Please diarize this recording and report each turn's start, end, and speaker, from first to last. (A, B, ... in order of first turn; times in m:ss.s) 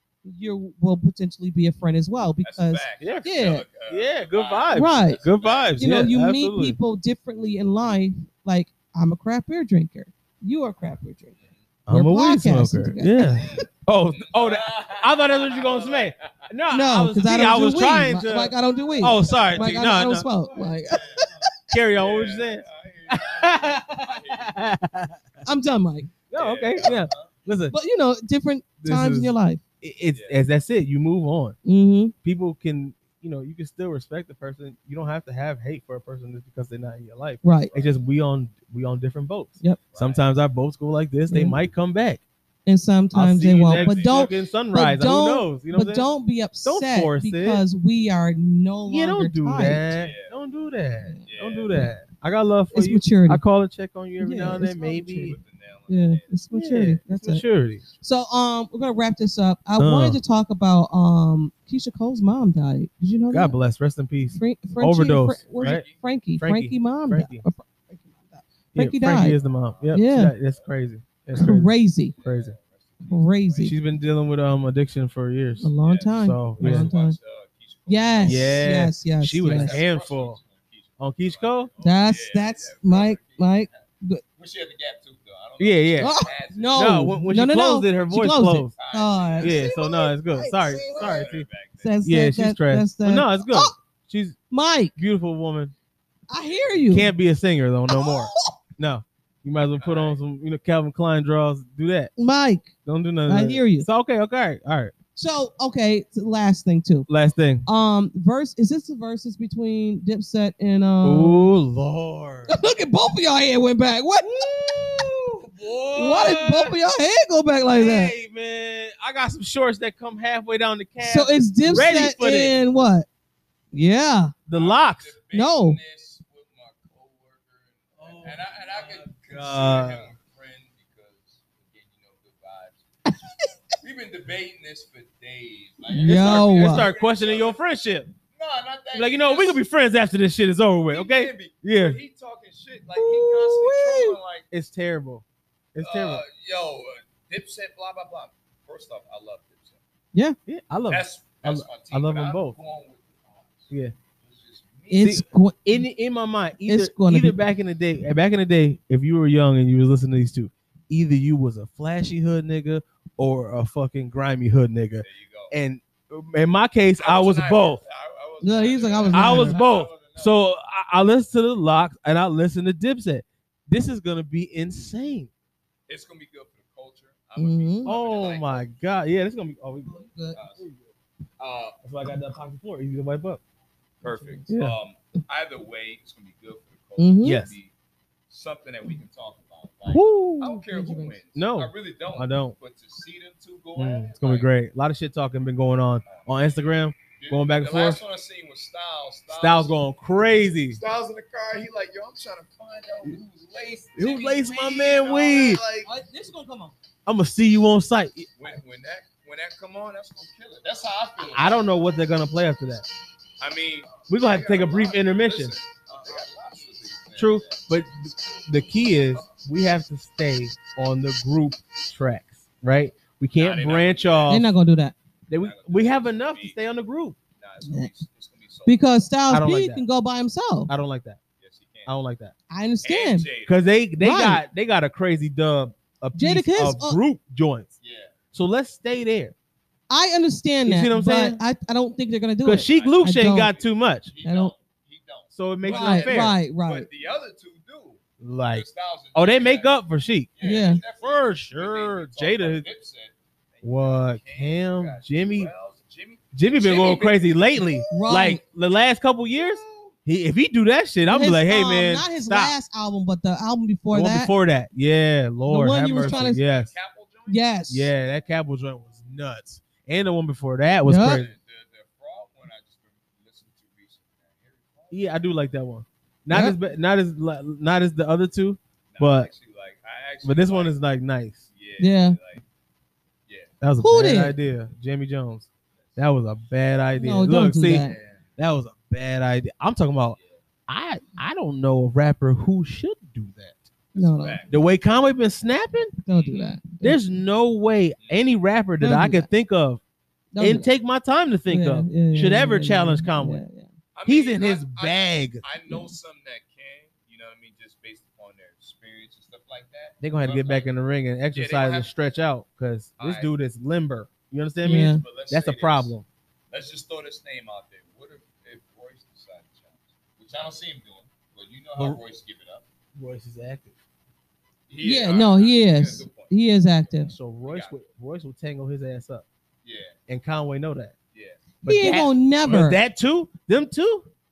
0:00.2-0:03.6 A
0:02.4-0:05.8 B
0:03.0-0:06.8 C
0:04.7-0:05.2 A
0:05.8-0:11.4 A
0:11.8-0:20.3 C
0:11.9-0:13.6 A
0:14.1-0:16.5 B
0:16.7-0:21.4 A
0:19.0-0:19.8 B
0:20.5-0:24.7 B
0:21.7-0:25.2 C
0:25.4-0:26.1 A
0:26.3-0:27.7 C
0:26.3-0:27.4 B
0:27.7-0:29.6 A
0:28.8-0:31.6 C
0:30.1-0:30.4 B
0:31.6-0:32.1 A
0:32.2-0:42.2 C
0:37.4-0:37.7 A
0:37.7-0:38.0 B
0:39.9-0:40.3 B
0:41.3-0:41.6 A
0:42.6-0:49.9 A
0:43.1-0:46.0 C
0:43.5-0:44.4 B
0:46.6-0:47.6 C
0:48.9-0:55.4 C
0:49.9-0:50.4 B
0:51.2-0:51.9 B
0:52.7-0:53.4 A
0:54.2-0:55.4 A
0:55.1-0:56.4 B
0:55.9-0:57.4 A
0:56.5-0:57.8 C
0:58.0-1:03.5 A
0:59.8-1:00.2 C
1:03.3-1:05.8 C
1:04.3-1:09.4 A
1:05.5-1:06.0 B
1:06.4-1:07.4 C
1:08.7-1:11.7 C
1:09.1-1:10.7 B
1:09.9-1:10.3 A
1:11.3-1:12.1 A
1:12.1-1:13.8 B
1:12.2-1:12.5 C
1:13.1-1:13.7 A
1:13.6-1:16.9 C
1:15.6-1:17.2 A
1:15.8-1:18.8 B
1:17.9-1:19.8 A
1:18.2-1:20.4 C
1:19.4-1:23.8 B
1:21.0-1:21.7 C
1:21.8-1:24.2 A
1:24.4-1:27.0 B
1:25.6-1:26.2 C
1:26.0-1:31.3 A
1:26.7-1:28.7 C
1:28.7-1:29.6 B
1:29.4-1:31.5 C
1:30.9-1:32.0 B
1:31.8-1:33.7 A
1:32.0-1:34.4 C
1:34.5-1:34.9 A
1:34.9-1:35.7 C
1:36.3-1:37.1 A
1:36.4-1:36.6 B
1:36.9-1:42.1 C
1:37.9-1:38.6 A
1:39.7-1:40.2 B
1:42.2-1:42.7 A
1:42.8-1:44.9 C
1:43.3-1:43.9 A
1:45.2-1:47.1 A
1:47.1-1:47.7 C
1:47.6-1:51.5 A
1:51.0-1:52.5 C
1:52.5-1:54.8 A
1:54.2-1:56.8 C
1:55.9-1:58.1 A
1:57.7-2:02.5 C
2:01.0-2:03.1 A
2:03.7-2:04.3 A
2:04.5-2:05.1 C
2:04.5-2:13.2 B
2:05.3-2:05.8 A
2:08.0-2:10.1 C
2:13.0-2:13.6 A
2:13.8-2:17.8 B
2:15.9-2:16.9 A
2:16.0-2:18.1 C
2:18.3-2:19.6 B
2:18.9-2:22.0 C
2:20.9-2:24.5 B
2:23.0-2:24.2 A
2:24.5-2:25.2 C
2:25.7-2:26.2 C
2:25.8-2:29.8 B
2:30.5-2:32.6 C
2:30.9-2:35.2 B
2:34.9-2:35.8 A
2:35.0-2:47.8 C
2:36.7-2:37.4 A
2:45.0-2:45.5 B
2:47.0-2:50.4 B
2:48.4-2:49.6 A
2:49.1-2:55.3 C
2:55.9-2:58.7 B
2:57.4-2:57.9 A
2:57.8-3:00.9 C
2:59.8-3:00.4 A
3:00.3-3:00.6 B
3:01.4-3:01.8 B
3:01.8-3:03.4 C
3:04.0-3:07.7 B
3:04.0-3:04.5 A
3:04.5-3:04.8 C
3:07.0-3:07.4 A
3:07.2-3:07.5 C
3:08.3-3:14.5 B
3:09.9-3:10.5 C
3:10.6-3:11.2 A
3:11.3-3:12.6 C
3:13.7-3:18.0 C
3:16.0-3:16.6 B
3:17.1-3:19.8 B
3:19.3-3:20.8 C
3:20.7-3:25.9 B
3:24.0-3:25.6 C
3:25.8-3:26.7 A
3:27.0-3:28.5 C
3:28.4-3:31.9 B
3:31.2-3:32.8 C
3:33.4-3:37.7 B
3:34.1-3:35.6 C
3:37.2-3:44.5 C
3:39.1-3:39.4 B
3:43.3-3:44.5 B
3:44.3-3:44.9 A
3:45.3-3:47.2 C
3:45.3-3:46.6 B
3:47.4-3:49.0 B
3:48.6-3:50.7 A
3:49.3-3:49.8 C
3:50.7-3:51.2 C
3:51.4-3:51.9 B
3:51.8-3:52.3 C
3:52.5-3:53.3 A
3:52.8-3:53.6 B
3:53.4-3:57.7 C
3:54.0-3:54.4 A
3:56.2-3:57.0 A
3:57.8-3:58.2 B
3:58.3-3:59.3 C
3:59.9-4:03.5 A
4:00.6-4:01.4 C
4:02.4-4:04.1 C
4:02.7-4:09.7 B
4:04.2-4:04.5 A
4:05.3-4:06.4 C
4:05.6-4:06.9 A
4:08.2-4:12.6 C
4:10.3-4:18.1 B
4:10.4-4:10.8 A
4:13.6-4:15.5 C
4:16.3-4:22.5 C
4:17.9-4:18.4 A
4:19.2-4:20.0 B
4:21.1-4:24.3 A
4:23.9-4:26.7 C
4:25.5-4:26.4 A
4:25.9-4:27.5 B
4:27.3-4:27.9 A
4:27.7-4:31.3 C
4:30.8-4:31.2 A
4:31.0-4:35.1 B
4:34.9-4:39.3 C
4:36.3-4:36.6 A
4:38.9-4:40.8 B
4:40.2-4:41.4 C
4:41.5-4:42.4 B
4:41.8-4:42.2 A
4:43.3-4:43.5 B
4:43.6-4:50.2 C
4:43.8-4:44.4 A
4:46.9-4:48.0 A
4:47.8-4:48.2 B
4:50.7-4:53.7 C
4:53.9-4:54.6 B
4:53.9-4:54.5 A
4:54.5-4:55.9 C
4:56.0-4:57.0 A
4:56.1-4:56.6 B
4:56.8-4:59.8 C
4:58.0-4:58.2 B
4:58.8-4:59.3 A
5:00.3-5:00.7 A
5:00.4-5:03.4 C
5:01.5-5:03.7 A
5:03.9-5:10.7 B
5:04.0-5:05.4 C
5:10.0-5:16.0 C
5:11.3-5:11.9 B
5:13.0-5:13.3 B
5:14.6-5:15.0 A
5:14.7-5:15.9 B
5:16.5-5:22.6 B
5:22.9-5:23.8 C
5:24.7-5:26.3 B
5:24.8-5:27.1 A
5:27.1-5:29.2 C
5:27.1-5:27.8 B
5:29.6-5:30.0 B
5:30.1-5:30.9 C
5:31.1-5:32.1 B
5:31.6-5:32.8 A
5:31.6-5:34.1 C